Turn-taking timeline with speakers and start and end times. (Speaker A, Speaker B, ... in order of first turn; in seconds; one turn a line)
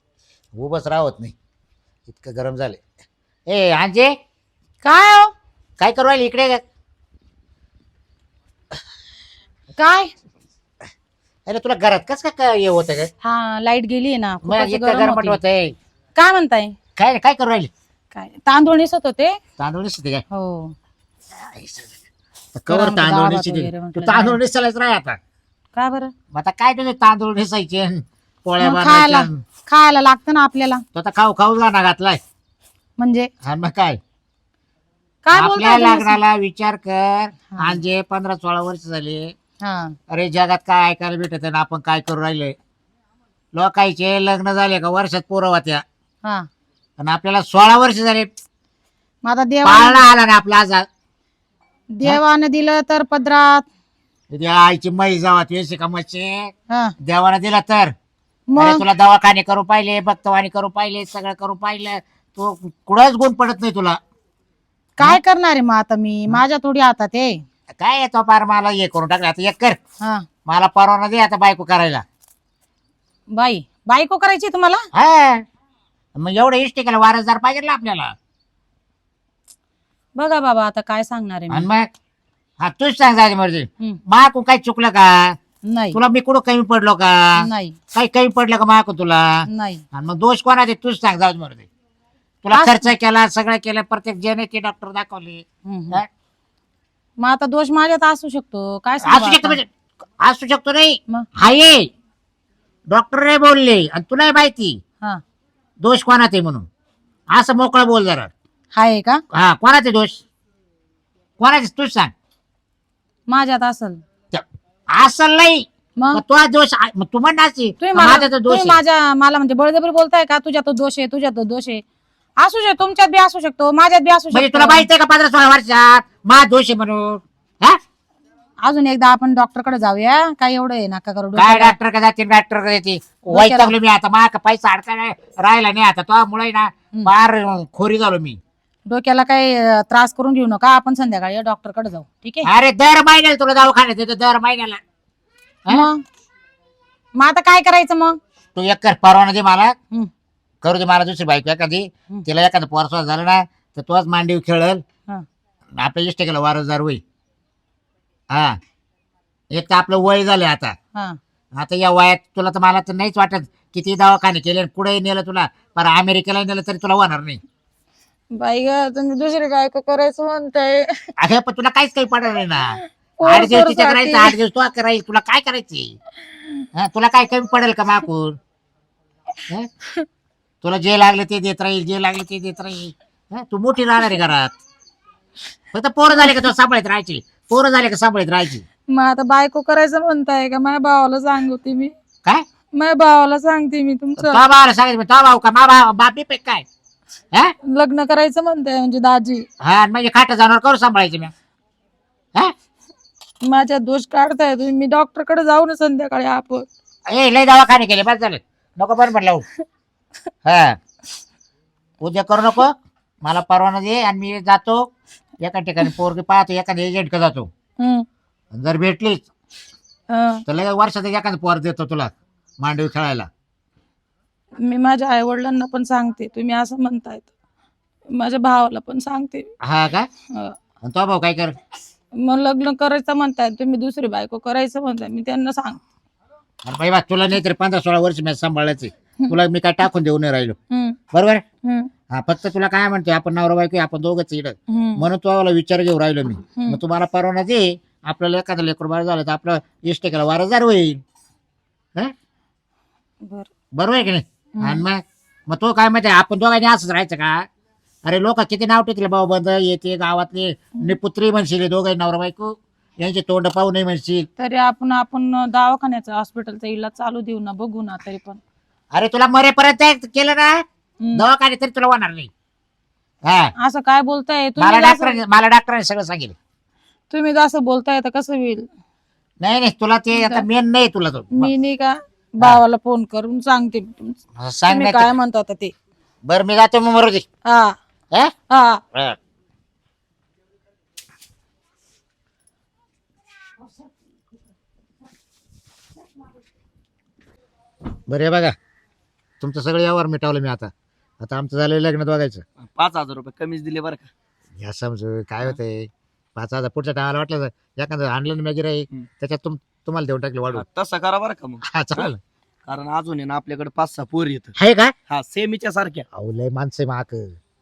Speaker A: 0.5-1.3
Speaker A: 2.1-2.8
Speaker A: 3.5-4.1
Speaker B: 4.8-5.3
Speaker A: 5.8-6.6
Speaker B: 9.8-10.1
Speaker A: 11.5-13.1
Speaker B: 13.2-15.4
Speaker A: 14.4-15.8
Speaker B: 16.1-16.7
Speaker A: 17.0-17.7
Speaker B: 18.1-19.4
Speaker A: 19.6-20.2
Speaker B: 20.3-20.7
Speaker A: 21.3-21.9
Speaker A: 22.6-25.2
Speaker B: 22.7-24.4
Speaker B: 25.7-26.1
Speaker A: 26.3-29.4
Speaker B: 28.6-30.8
Speaker A: 30.9-32.2
Speaker B: 33.0-33.3
Speaker A: 33.4-34.0
Speaker B: 35.2-36.2
Speaker A: 35.3-39.3
Speaker B: 37.5-37.8
Speaker B: 39.6-39.9
Speaker A: 40.1-42.5
Speaker A: 43.5-45.8
Speaker A: 47.0-48.3
Speaker B: 49.2-50.1
Speaker A: 49.6-50.9
Speaker B: 51.9-53.6
Speaker A: 54.3-57.9
Speaker B: 56.7-56.9
Speaker B: 58.5-58.8
Speaker A: 58.6-64.0
Speaker B: 65.0-67.4
Speaker A: 67.7-69.8
Speaker A: 70.5-72.0
Speaker B: 73.3-74.8
Speaker A: 74.9-75.4
Speaker A: 76.2-78.1
Speaker B: 80.2-81.7
Speaker A: 81.5-81.9
Speaker A: 82.6-85.4
Speaker B: 85.6-86.0
Speaker A: 85.9-91.7
Speaker B: 87.4-87.8
Speaker B: 89.5-89.8
Speaker A: 92.4-96.1
Speaker B: 92.5-92.9
Speaker B: 95.6-96.0
Speaker B: 97.2-99.6
Speaker A: 99.0-99.7
Speaker A: 100.2-101.9
Speaker A: 102.9-104.8
Speaker A: 105.8-106.7
Speaker A: 107.3-108.3
Speaker B: 108.7-109.2
Speaker A: 109.3-110.2
Speaker A: 111.4-112.1
Speaker B: 113.3-114.0
Speaker A: 114.3-118.8
Speaker B: 116.0-116.2
Speaker B: 117.8-121.8
Speaker B: 122.4-124.9
Speaker A: 124.3-127.8
Speaker B: 128.6-131.8
Speaker A: 131.3-138.4
Speaker B: 133.2-133.8
Speaker B: 138.9-142.5
Speaker A: 142.4-144.8
Speaker B: 145.7-146.0
Speaker B: 147.2-148.2
Speaker A: 148.6-149.8
Speaker A: 150.6-154.8
Speaker A: 155.8-157.0
Speaker A: 158.3-158.6
Speaker A: 159.5-160.8
Speaker A: 161.6-167.4
Speaker B: 168.3-171.1
Speaker A: 171.2-175.9
Speaker B: 172.7-174.3
Speaker A: 176.7-178.4
Speaker A: 180.6-184.5
Speaker A: 185.7-188.6
Speaker B: 188.9-191.9
Speaker B: 192.8-194.4
Speaker A: 194.2-196.6
Speaker B: 197.7-199.4
Speaker A: 199.6-201.3
Speaker B: 203.4-206.7
Speaker A: 207.1-209.4
Speaker A: 210.4-210.8
Speaker A: 212.0-214.9
Speaker A: 215.4-217.5
Speaker B: 217.8-218.1
Speaker A: 218.5-219.3
Speaker B: 220.1-220.4
Speaker A: 220.4-223.3
Speaker B: 224.6-227.3
Speaker B: 228.1-229.5
Speaker A: 229.6-230.1
Speaker A: 230.8-231.6
Speaker B: 232.2-235.8
Speaker A: 236.6-240.6
Speaker B: 240.7-241.0
Speaker A: 241.1-241.4
Speaker B: 241.6-241.9
Speaker A: 242.1-251.0
Speaker B: 244.7-245.1
Speaker B: 246.5-246.8
Speaker B: 253.2-253.5
Speaker A: 253.7-257.5
Speaker B: 254.6-254.9
Speaker A: 258.0-264.3
Speaker B: 264.4-268.4
Speaker A: 268.9-270.6
Speaker B: 271.0-271.3
Speaker A: 271.1-272.3
Speaker A: 273.2-273.5
Speaker B: 273.6-275.2
Speaker A: 274.6-276.3
Speaker B: 277.1-278.6
Speaker A: 279.4-281.5
Speaker B: 280.1-280.5
Speaker B: 281.3-285.7
Speaker A: 284.4-285.1
Speaker A: 286.2-287.2
Speaker B: 287.5-287.8
Speaker B: 288.5-288.8
Speaker A: 298.1-298.5
Speaker A: 299.4-302.4
Speaker C: 302.6-304.1
Speaker A: 304.6-310.6
Speaker C: 310.5-312.1
Speaker A: 311.7-312.2
Speaker C: 312.7-314.5
Speaker A: 314.6-314.9
Speaker C: 315.1-316.0
Speaker A: 316.1-317.4